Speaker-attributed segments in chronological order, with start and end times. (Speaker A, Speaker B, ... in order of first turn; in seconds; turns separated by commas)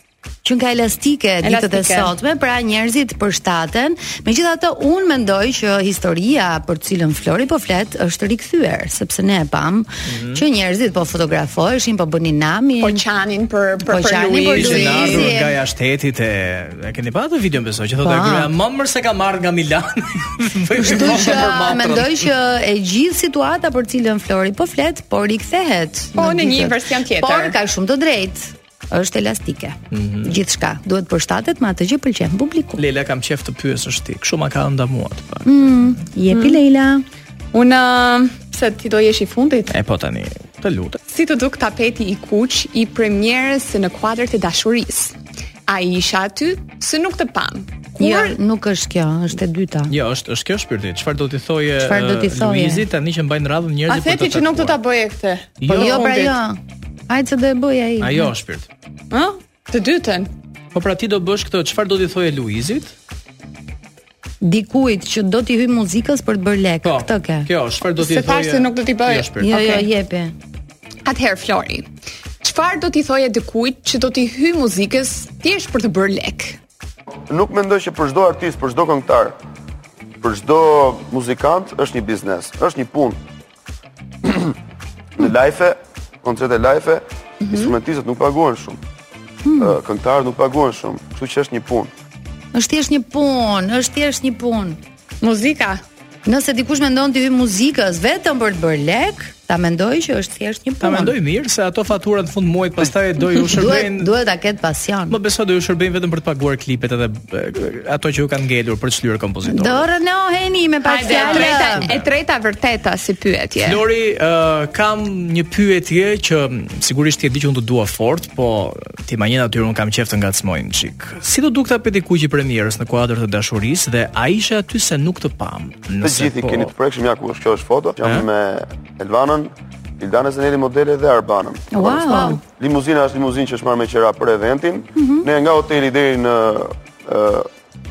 Speaker A: 0.4-13.0, Speaker B: 1.4-2.1, Speaker C: 10.1-10.4, Speaker B: 12.8-15.3, Speaker A: 13.8-15.6, Speaker C: 14.6-22.3, Speaker A: 18.0-18.5, Speaker A: 20.7-32.8, Speaker B: 26.1-27.6, Speaker C: 29.9-30.4, Speaker C: 32.8-36.0, Speaker A: 35.4-37.0, Speaker B: 36.3-36.6, Speaker B: 37.5-39.7, Speaker C: 39.7-41.0, Speaker B: 41.1-45.1, Speaker B: 45.7-48.4, Speaker A: 48.0-49.9, Speaker C: 49.9-54.8, Speaker A: 51.8-52.9, Speaker B: 53.9-56.4, Speaker C: 55.6-56.1, Speaker A: 55.7-58.3, Speaker C: 58.0-58.7, Speaker B: 59.1-60.3, Speaker C: 60.7-62.9, Speaker A: 64.4-67.5, Speaker C: 66.8-69.5, Speaker B: 68.0-69.8, Speaker A: 69.4-70.3, Speaker B: 71.0-71.9, Speaker B: 72.4-76.6, Speaker D: 77.3-79.4, Speaker D: 80.2-83.2, Speaker D: 84.2-84.5, Speaker D: 85.2-88.8, Speaker B: 87.4-87.7, Speaker A: 89.4-89.8, Speaker D: 89.6-91.9, Speaker A: 92.5-94.8, Speaker B: 95.2-95.8, Speaker A: 96.2-101.2, Speaker C: 100.8-104.1, Speaker A: 103.3-105.2, Speaker C: 105.1-109.9, Speaker A: 109.5-111.9, Speaker B: 110.8-113.8, Speaker C: 111.2-112.0, Speaker C: 113.6-126.7, Speaker D: 126.0-137.5, Speaker A: 131.7-132.4, Speaker A: 134.9-135.3